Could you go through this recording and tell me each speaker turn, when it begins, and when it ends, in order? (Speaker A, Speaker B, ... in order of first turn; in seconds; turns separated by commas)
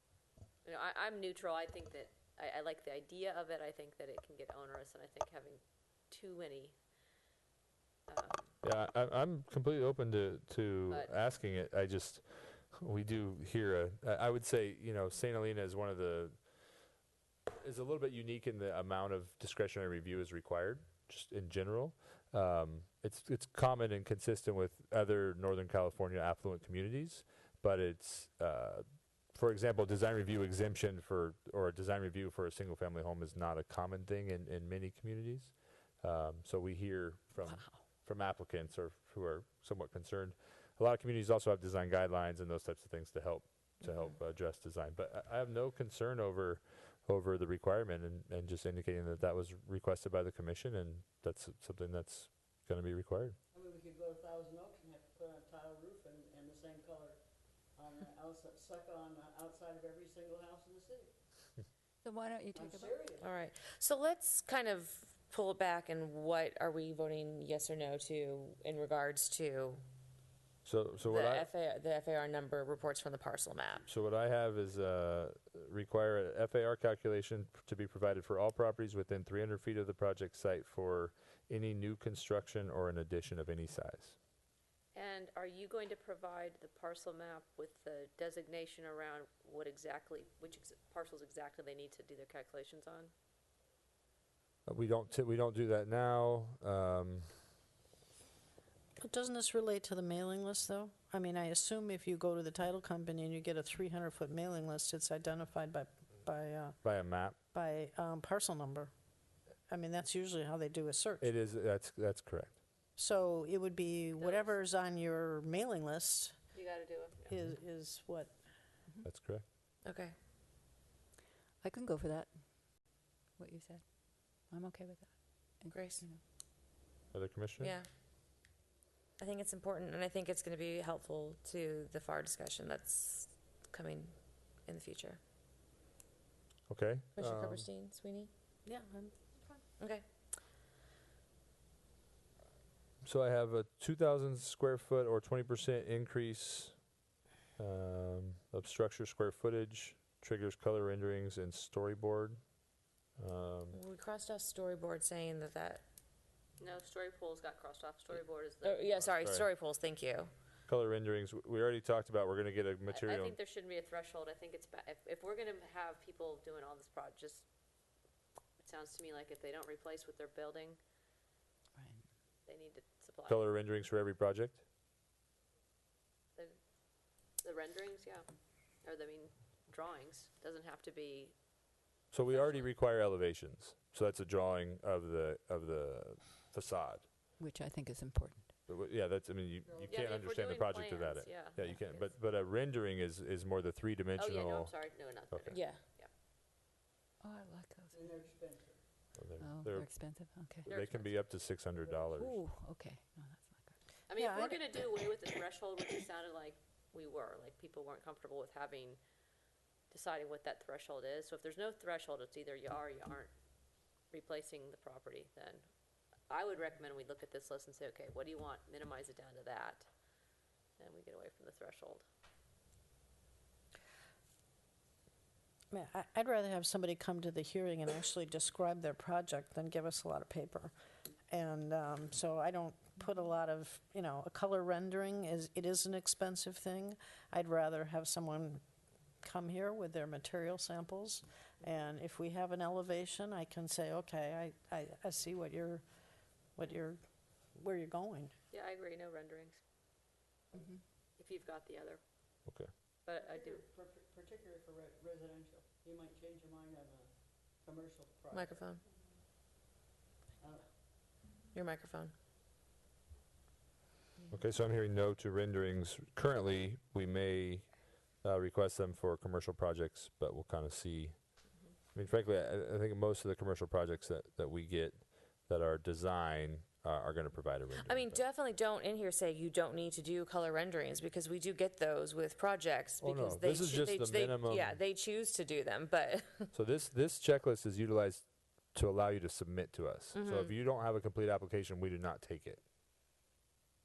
Speaker A: 0.6-6.8, Speaker A: 8.1-8.6, Speaker B: 8.6-16.4, Speaker A: 10.9-11.2, Speaker B: 17.5-53.4, Speaker C: 37.5-37.8, Speaker D: 43.8-44.2, Speaker E: 53.5-61.1, Speaker C: 62.0-63.1, Speaker E: 62.5-63.3, Speaker D: 63.2-69.8, Speaker B: 70.7-71.5, Speaker D: 71.0-73.9, Speaker B: 73.9-84.2, Speaker A: 84.9-93.1, Speaker B: 94.7-97.3, Speaker F: 99.0-108.9, Speaker B: 106.8-107.4, Speaker F: 109.7-111.3, Speaker B: 111.2-112.6, Speaker F: 113.0-116.5, Speaker A: 114.2-114.5, Speaker A: 116.5-117.3, Speaker F: 117.3-118.4, Speaker B: 119.0-119.5, Speaker D: 119.8-120.2, Speaker C: 121.6-122.3, Speaker C: 123.4-126.2, Speaker D: 125.7-126.0, Speaker B: 127.1-127.7, Speaker D: 127.6-127.9, Speaker D: 129.2-135.2, Speaker B: 136.7-137.7, Speaker D: 137.2-138.3, Speaker F: 138.7-139.6, Speaker D: 139.8-140.1, Speaker B: 143.0-146.8, Speaker B: 147.6-152.4, Speaker B: 153.2-153.8, Speaker D: 153.7-155.8, Speaker A: 156.6-159.1, Speaker D: 158.6-160.3, Speaker B: 159.1-159.5, Speaker B: 160.7-163.3, Speaker A: 162.9-167.5, Speaker A: 168.6-170.8, Speaker C: 171.8-172.0, Speaker A: 172.5-173.5, Speaker B: 173.3-174.6, Speaker A: 177.4-178.3, Speaker A: 178.8-181.4, Speaker B: 182.1-187.1, Speaker A: 182.3-182.7, Speaker C: 187.4-188.5, Speaker B: 188.7-195.6, Speaker E: 189.7-190.0, Speaker A: 189.9-192.1, Speaker C: 191.5-191.9, Speaker A: 194.2-196.1, Speaker D: 195.5-195.8, Speaker C: 197.2-198.3, Speaker E: 197.9-199.1, Speaker B: 199.2-200.0, Speaker C: 199.4-200.8, Speaker A: 200.7-201.2, Speaker B: 200.7-202.4, Speaker E: 201.8-202.3, Speaker C: 202.2-203.8, Speaker A: 204.1-209.0, Speaker F: 204.1-204.8, Speaker A: 209.9-213.3, Speaker A: 214.1-215.7, Speaker A: 216.3-219.9, Speaker A: 220.8-222.1, Speaker F: 225.7-230.7, Speaker F: 231.3-238.6, Speaker F: 239.2-245.8, Speaker F: 246.6-247.0, Speaker F: 247.5-248.3, Speaker A: 248.5-249.6, Speaker A: 251.2-252.0, Speaker B: 252.5-252.7, Speaker A: 253.0-253.6, Speaker E: 253.1-258.6, Speaker D: 258.3-258.8, Speaker E: 260.4-260.8, Speaker D: 261.5-262.1, Speaker B: 264.3-267.7, Speaker B: 268.2-271.2, Speaker B: 271.9-278.2, Speaker D: 277.8-286.5, Speaker B: 283.0-284.8, Speaker B: 286.5-292.6, Speaker D: 290.1-290.5